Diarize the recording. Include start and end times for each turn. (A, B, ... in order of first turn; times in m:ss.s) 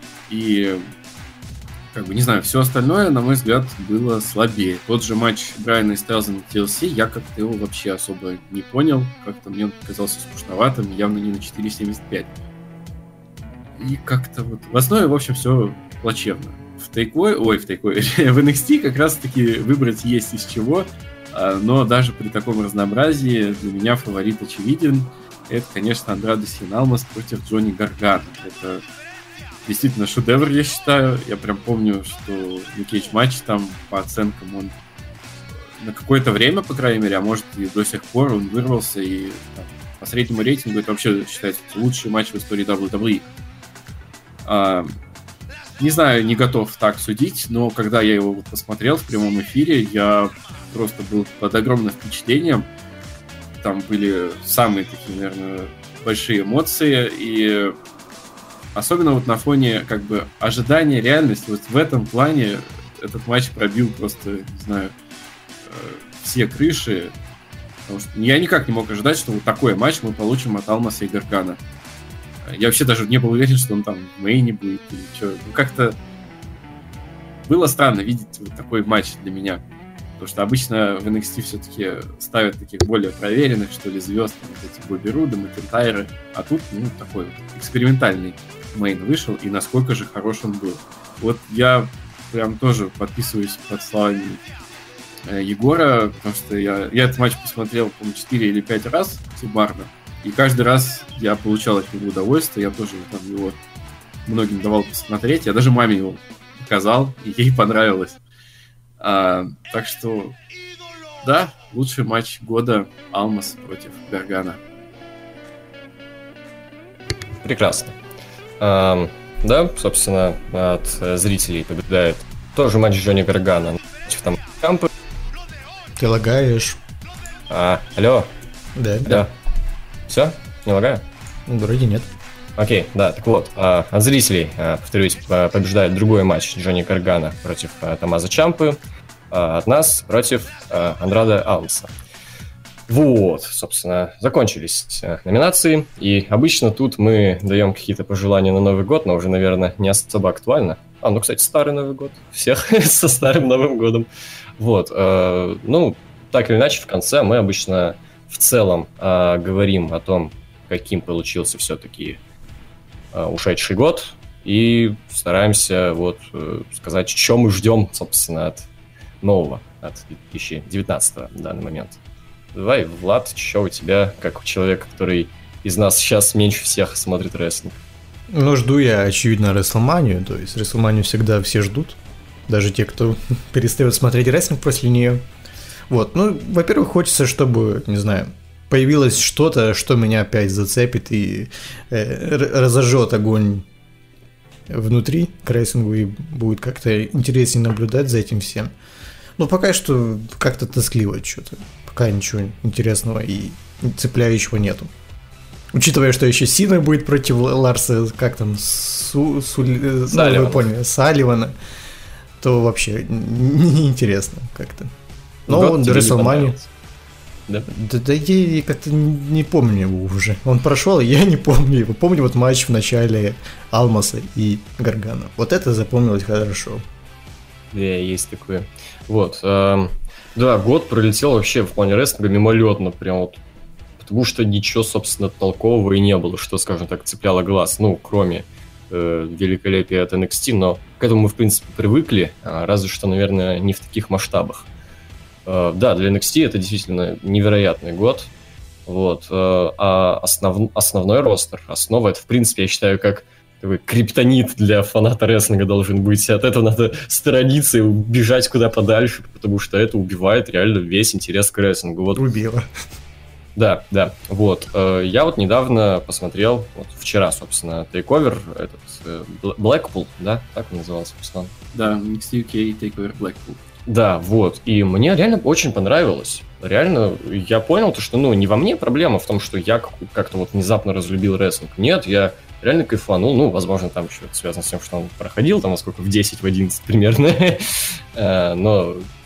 0:00.3-0:00.8 A
0:01.9-0:12.3 A
0:13.8-0:28.8 A
0:29.6-0:34.7 A
0:35.8-0:43.3 A
0:44.4-0:44.9 A
0:45.8-0:52.7 A
0:53.6-0:57.8 A
0:58.7-1:04.9 A
1:05.6-1:07.1 A
1:07.9-1:11.6 A
1:12.5-1:16.0 A
1:17.5-1:19.6 A
1:20.2-1:34.4 A
1:35.2-1:43.6 A
1:44.3-1:48.2 A
1:49.0-1:50.4 A
1:51.2-1:54.6 A
1:57.4-1:58.0 B
1:58.6-2:04.9 B
2:06.0-2:06.8 C
2:07.5-2:08.3 B
2:08.8-2:09.3 C
2:09.0-2:09.3 B
2:10.1-2:11.0 B
2:11.5-2:12.1 C
2:12.6-2:18.8 B
2:19.3-2:21.9 B
2:22.9-2:42.2 B
2:43.1-2:48.7 B
2:49.2-2:52.0 B
2:52.5-2:57.8 B
2:58.3-3:05.2 C
3:05.9-3:13.6 C
3:14.7-3:18.7 C
3:19.4-3:24.9 C
3:25.7-3:31.5 C
3:30.1-3:30.7 B
3:32.4-3:34.9 C
3:35.5-3:36.6 C
3:35.5-3:36.7 B
3:37.7-3:46.8 C
3:47.7-3:53.4 B
3:54.0-4:04.7 B
4:05.4-4:08.3 B
4:08.9-4:22.3 B
4:22.2-4:22.6 C
4:23.6-4:31.5 B
4:31.7-4:33.6 A
4:33.8-4:49.1 B